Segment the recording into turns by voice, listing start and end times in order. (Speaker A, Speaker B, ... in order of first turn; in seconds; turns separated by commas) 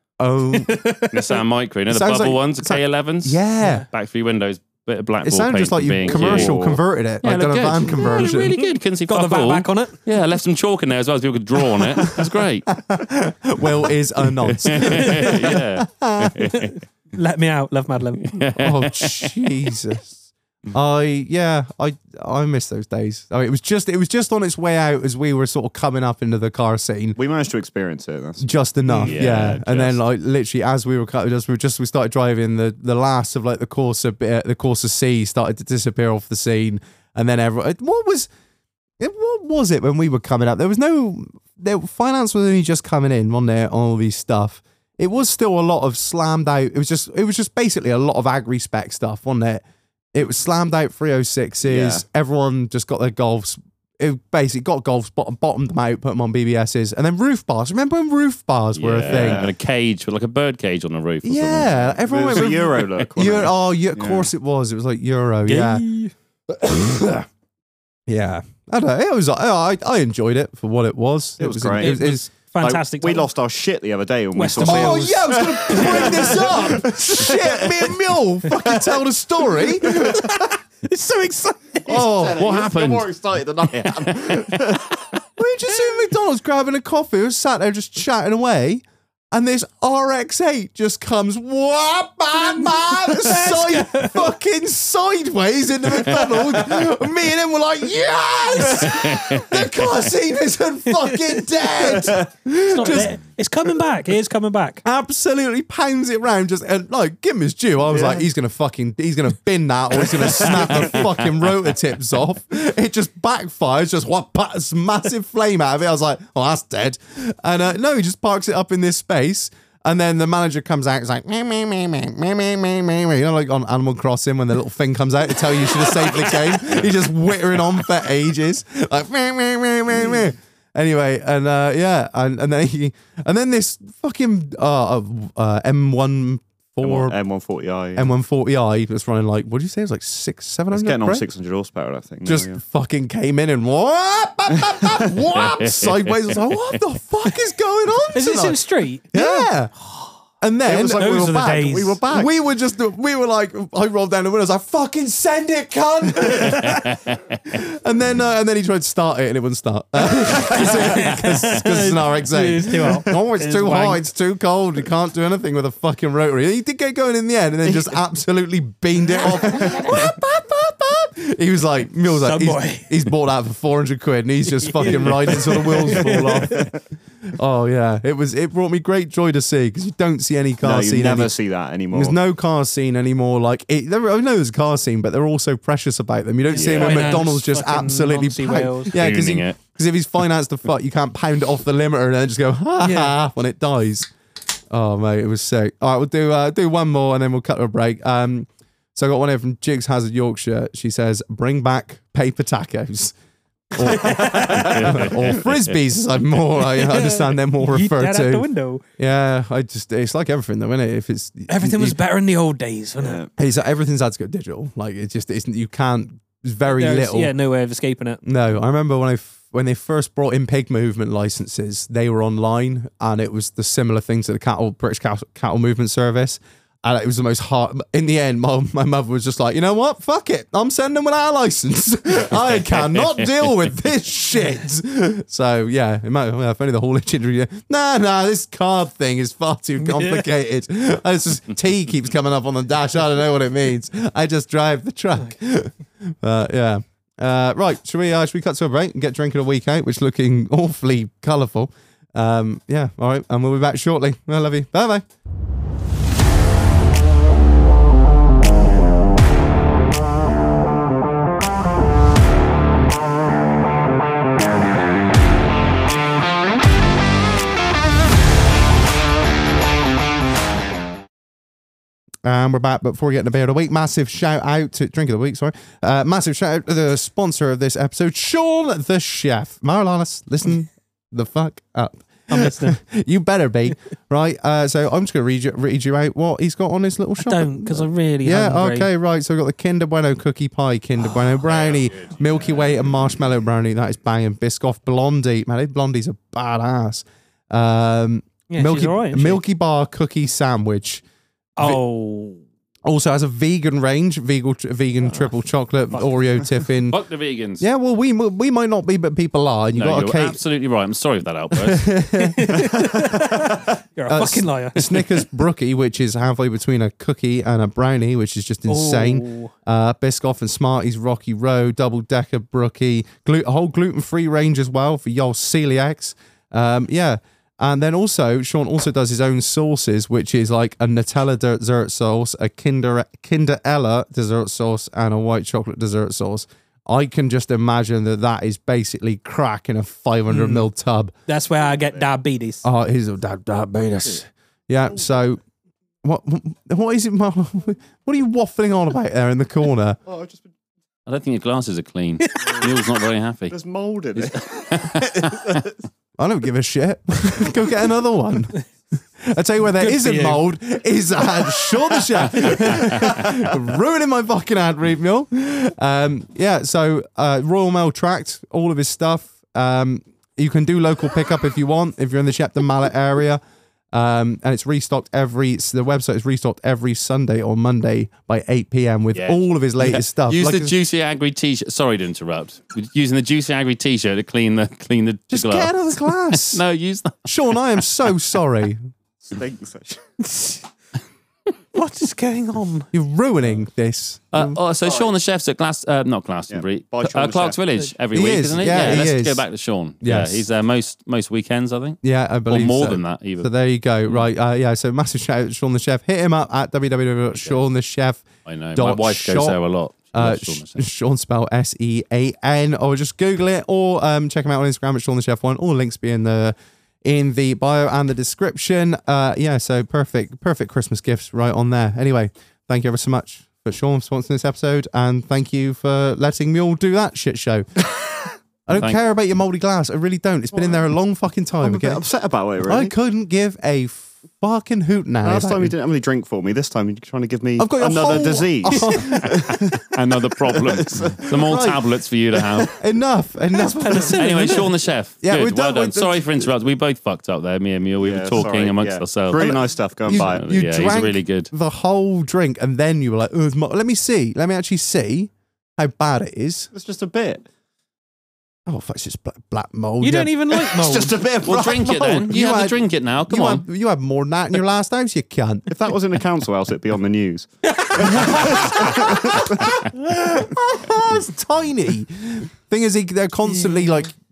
Speaker A: 0.2-1.2, Speaker B: 0.7-1.1, Speaker C: 1.1-6.6, Speaker A: 1.9-3.9, Speaker A: 5.2-8.5, Speaker D: 6.0-6.8, Speaker C: 7.2-12.7, Speaker B: 8.5-10.0, Speaker A: 12.0-16.5, Speaker C: 14.4-16.8, Speaker B: 14.8-15.5, Speaker B: 16.5-18.4, Speaker C: 18.2-19.4, Speaker A: 18.6-27.2, Speaker D: 27.2-29.6, Speaker A: 28.4-38.3, Speaker C: 29.1-30.0, Speaker A: 39.0-59.5, Speaker D: 51.6-52.0, Speaker C: 58.8-62.8, Speaker D: 59.1-59.5, Speaker A: 61.2-65.8, Speaker D: 62.1-64.3, Speaker B: 65.5-66.1, Speaker A: 66.5-67.3, Speaker A: 68.1-72.3, Speaker D: 71.4-72.0, Speaker B: 71.8-73.3, Speaker D: 72.6-79.0, Speaker B: 74.3-75.8, Speaker A: 74.6-80.3, Speaker D: 79.6-80.3, Speaker B: 80.0-81.9, Speaker D: 81.8-85.0, Speaker A: 81.9-82.5, Speaker C: 82.1-83.1, Speaker C: 83.7-84.8, Speaker A: 85.4-103.2, Speaker B: 92.4-94.3, Speaker C: 96.1-96.8, Speaker C: 98.8-99.5, Speaker B: 101.0-101.4, Speaker D: 101.7-102.3, Speaker B: 102.7-104.8, Speaker A: 104.8-137.2, Speaker D: 107.9-108.2, Speaker D: 110.0-111.1, Speaker D: 136.8-138.1, Speaker A: 137.9-141.2, Speaker D: 140.7-142.6, Speaker A: 142.2-148.6, Speaker C: 145.4-146.2, Speaker B: 148.1-150.1, Speaker A: 149.1-149.7, Speaker A: 150.4-176.7, Speaker D: 150.7-152.3, Speaker B: 150.8-152.0, Speaker C: 156.7-157.2, Speaker B: 160.4-164.0, Speaker D: 167.7-168.0, Speaker B: 169.2-170.1, Speaker D: 169.2-170.0, Speaker B: 172.1-172.9, Speaker B: 174.6-176.7, Speaker D: 174.8-176.8, Speaker A: 177.3-181.3, Speaker D: 180.6-182.2, Speaker A: 181.9-194.1, Speaker C: 186.5-187.3, Speaker B: 186.6-188.9, Speaker C: 188.9-189.6, Speaker B: 192.8-193.2, Speaker A: 194.7-203.1, Speaker A: 203.7-208.5, Speaker B: 203.8-205.1, Speaker C: 204.7-205.5, Speaker B: 206.6-208.8, Speaker A: 209.0-212.0, Speaker B: 211.5-213.2, Speaker D: 213.0-213.3, Speaker A: 213.4-217.3, Speaker B: 216.7-218.2, Speaker A: 218.2-255.1, Speaker C: 232.8-233.3, Speaker B: 239.8-240.3, Speaker A: 272.2-301.0, Speaker B: 282.3-282.8, Speaker B: 287.2-288.9, Speaker D: 291.5-292.8, Speaker B: 298.5-299.4, Speaker B: 301.6-302.4, Speaker A: 302.9-307.0, Speaker C: 306.9-307.6, Speaker A: 307.6-310.4, Speaker C: 309.7-311.9, Speaker A: 311.5-313.4, Speaker B: 312.2-315.2, Speaker A: 314.1-341.1, Speaker B: 318.7-319.5, Speaker B: 340.3-340.7, Speaker B: 341.3-342.7, Speaker D: 341.7-342.1, Speaker A: 342.6-345.4, Speaker A: 346.0-350.0, Speaker D: 350.1-350.5, Speaker C: 351.1-353.6, Speaker B: 352.2-352.8, Speaker D: 353.5-355.7, Speaker C: 354.1-355.6, Speaker A: 356.2-358.6, Speaker A: 359.2-373.4, Speaker B: 359.8-360.4, Speaker A: 373.9-380.7, Speaker C: 379.1-387.8, Speaker A: 385.3-386.6, Speaker A: 387.2-388.8, Speaker D: 389.2-390.2, Speaker B: 391.7-392.9, Speaker A: 392.9-394.6, Speaker C: 394.3-403.5, Speaker D: 394.8-395.1, Speaker D: 396.5-397.6, Speaker A: 398.1-399.4, Speaker A: 400.0-400.4, Speaker A: 402.0-409.6, Speaker C: 408.5-410.9, Speaker A: 410.1-427.7, Speaker A: 428.7-432.0, Speaker C: 428.7-429.0, Speaker D: 431.6-432.9, Speaker A: 432.6-435.7, Speaker D: 435.2-439.6, Speaker A: 437.6-439.8, Speaker B: 438.7-439.0, Speaker C: 439.9-442.7, Speaker D: 440.4-441.3, Speaker A: 441.3-441.9, Speaker A: 442.7-444.2, Speaker B: 443.5-444.7, Speaker C: 444.1-451.5, Speaker A: 445.2-446.5, Speaker D: 448.0-450.4, Speaker A: 450.1-456.7, Speaker D: 456.7-457.5, Speaker A: 458.7-465.7, Speaker B: 460.0-461.1, Speaker D: 460.8-461.7, Speaker C: 461.4-463.6, Speaker D: 465.7-469.9, Speaker A: 468.1-474.1